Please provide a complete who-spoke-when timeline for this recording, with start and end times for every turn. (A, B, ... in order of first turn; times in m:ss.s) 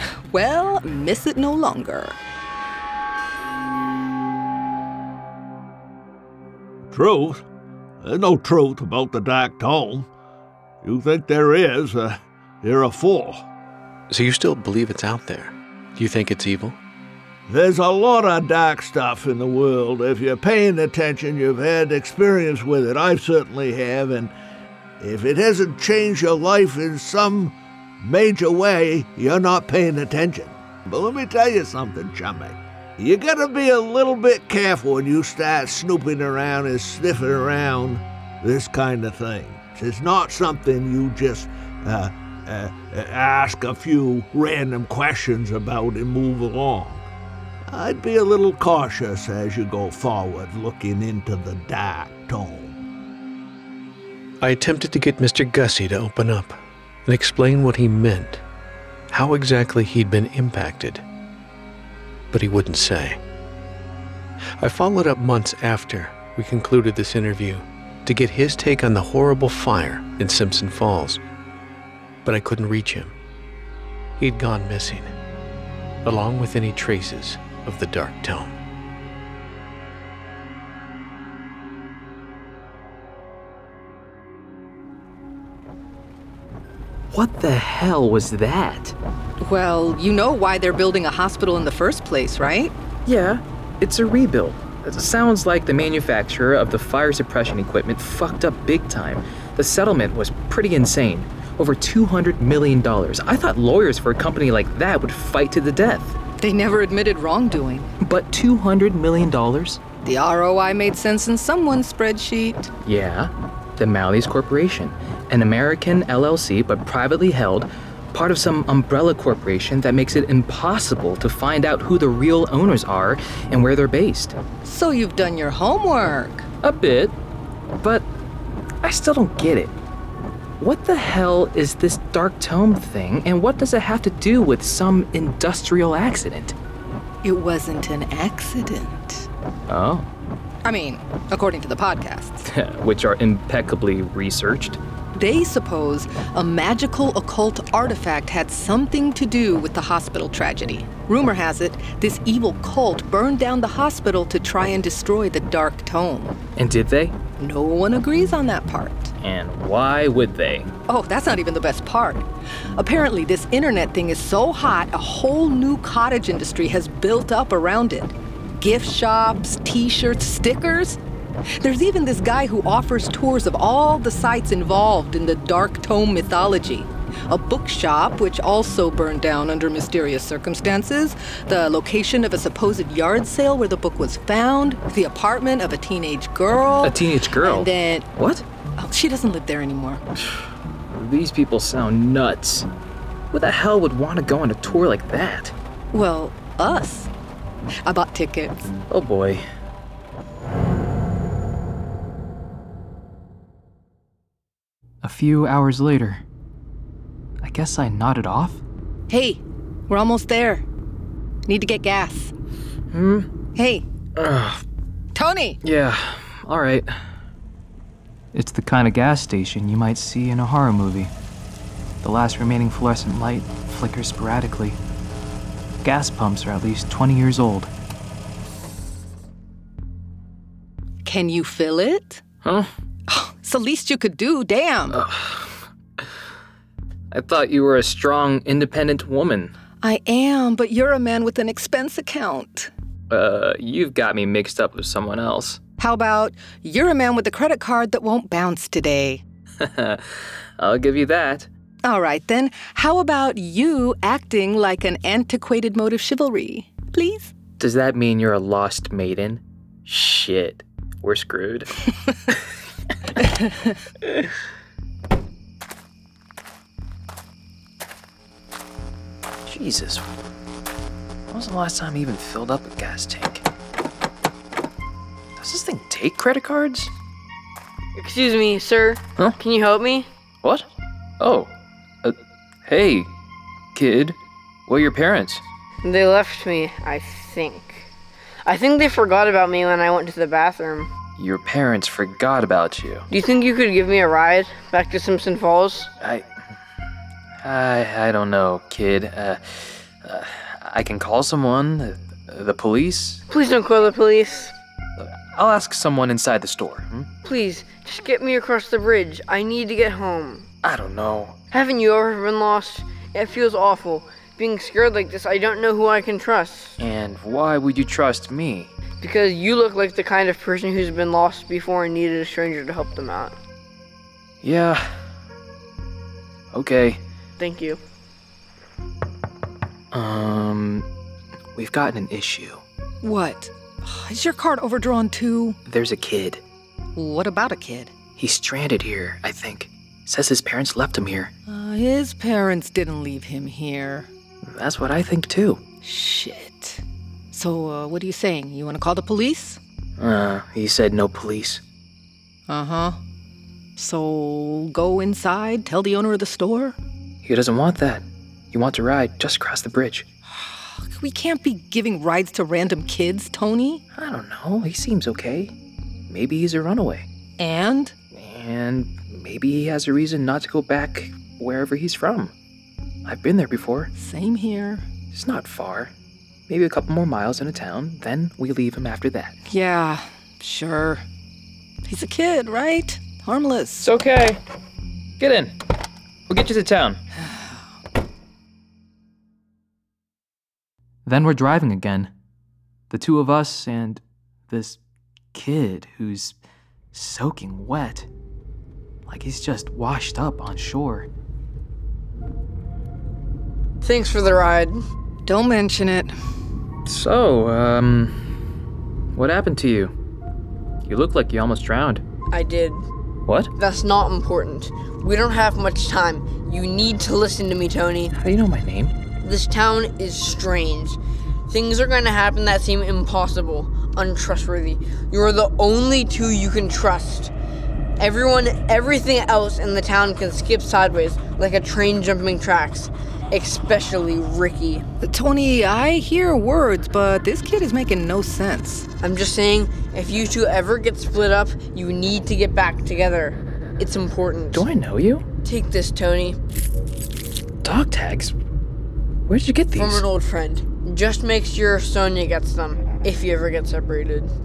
0:00.3-0:02.2 A
0:06.9-0:07.4 B
0:08.0-0:10.1 B
0:10.8-0:13.4 B
0:14.1-0:16.8 C
0:17.5-0:24.3 B
0:25.0-0:47.1 B
0:47.7-0:52.8 B
0:54.4-0:58.4 C
0:59.1-1:01.0 C
1:02.3-1:03.2 C
1:04.6-1:11.2 C
1:12.2-1:13.1 C
1:14.2-1:15.1 C
1:16.0-1:18.5 C
1:27.1-1:29.0 D
1:29.4-1:32.7 A
1:33.0-1:46.2 D
1:46.4-1:47.9 A
1:48.0-1:49.8 D
1:50.0-1:52.7 A
1:52.8-2:04.4 D
2:04.6-2:06.5 A
2:06.6-2:07.2 D
2:07.8-2:08.1 D
2:08.8-2:09.8 D
2:10.6-2:16.5 D
2:17.2-2:19.3 A
2:19.7-2:20.1 D
2:20.6-2:22.4 A
2:22.4-2:24.8 D
2:25.1-2:36.3 A
2:36.6-2:37.2 D
2:37.4-2:39.1 A
2:39.2-2:40.7 D
2:40.9-2:51.0 A
2:51.6-3:08.1 A
3:06.8-3:08.4 D
3:08.8-3:10.0 A
3:10.9-3:12.7 D
3:13.3-3:15.5 D
3:15.9-3:17.1 A
3:17.8-3:18.8 A
3:18.9-3:19.4 D
3:25.0-3:26.2 D
3:27.4-3:28.6 D
3:29.1-3:30.6 A
3:31.5-3:32.3 A
3:32.9-3:33.3 D
3:33.6-3:33.8 A
3:34.2-3:34.6 D
3:35.1-3:35.6 A
3:35.6-3:37.0 D
3:38.3-3:41.1 D
3:42.0-3:44.8 D
3:45.8-3:47.7 D
3:51.0-3:52.2 A
3:52.4-3:52.7 D
3:53.1-3:55.0 A
3:54.9-3:55.6 D
3:57.1-3:59.5 D
3:59.8-4:02.7 A
4:03.1-4:05.6 D
4:05.8-4:09.2 A
4:09.6-4:11.5 D
4:11.8-4:17.3 A
4:17.6-4:21.7 D
4:23.4-4:23.7 A
4:29.5-4:30.1 D
4:31.3-4:33.4 D
4:35.4-4:36.9 D
4:38.0-4:40.1 E
4:41.2-4:43.1 D
4:43.7-4:45.4 D
4:45.8-4:47.9 E
4:48.5-4:50.9 E
4:51.2-4:53.0 D
4:53.1-4:55.9 E
4:56.0-4:56.3 D
4:57.4-5:03.2 D
5:03.3-5:04.5 E
5:05.0-5:07.1 D
5:07.2-5:10.5 E
5:10.6-5:11.4 D
5:11.5-5:16.8 E
5:16.8-5:18.7 D
5:19.0-5:23.3 E
5:24.4-5:24.9 D
5:26.5-5:27.0 D
5:27.4-5:27.8 E
5:29.9-5:30.8 D
5:31.5-5:32.6 D
5:33.0-5:35.6 A
5:35.7-5:36.4 D
5:37.0-5:38.0 A
5:38.2-5:41.3 D
5:41.5-5:44.1 A
5:44.4-5:45.6 D
5:45.8-5:49.6 A
5:50.0-5:51.6 D
5:52.5-5:53.0 A
5:53.8-5:56.8 A
5:57.2-6:00.0 D
6:00.3-6:03.8 A
6:03.9-6:05.5 D
6:06.1-6:07.0 D
6:07.4-6:08.0 A
6:08.1-6:12.3 D
6:13.0-6:13.9 D
6:14.0-6:14.9 A
6:15.1-6:15.9 D
6:16.5-6:19.3 D
6:19.5-6:21.0 A
6:21.8-6:23.9 A
6:23.8-6:24.4 D
6:25.2-6:25.6 D
6:26.3-6:27.0 D
6:31.0-6:32.1 D
6:32.9-6:34.8 D
6:35.3-6:36.4 D
6:36.9-6:38.1 D
6:39.1-6:41.1 D
6:43.8-6:44.8 E
6:45.2-6:46.1 A
6:46.8-6:48.2 D
6:49.1-6:49.9 D
6:50.8-6:52.0 D
6:52.3-6:52.8 E
6:53.6-6:58.1 E
6:58.1-6:59.0 D
6:59.2-7:01.0 E
7:01.5-7:07.3 E
7:08.0-7:14.8 E
7:15.0-7:18.9 A
7:19.0-7:24.7 E
7:24.5-7:25.2 D
7:25.4-7:26.4 E
7:27.6-7:28.3 D
7:29.3-7:30.0 D
7:29.8-7:34.3 E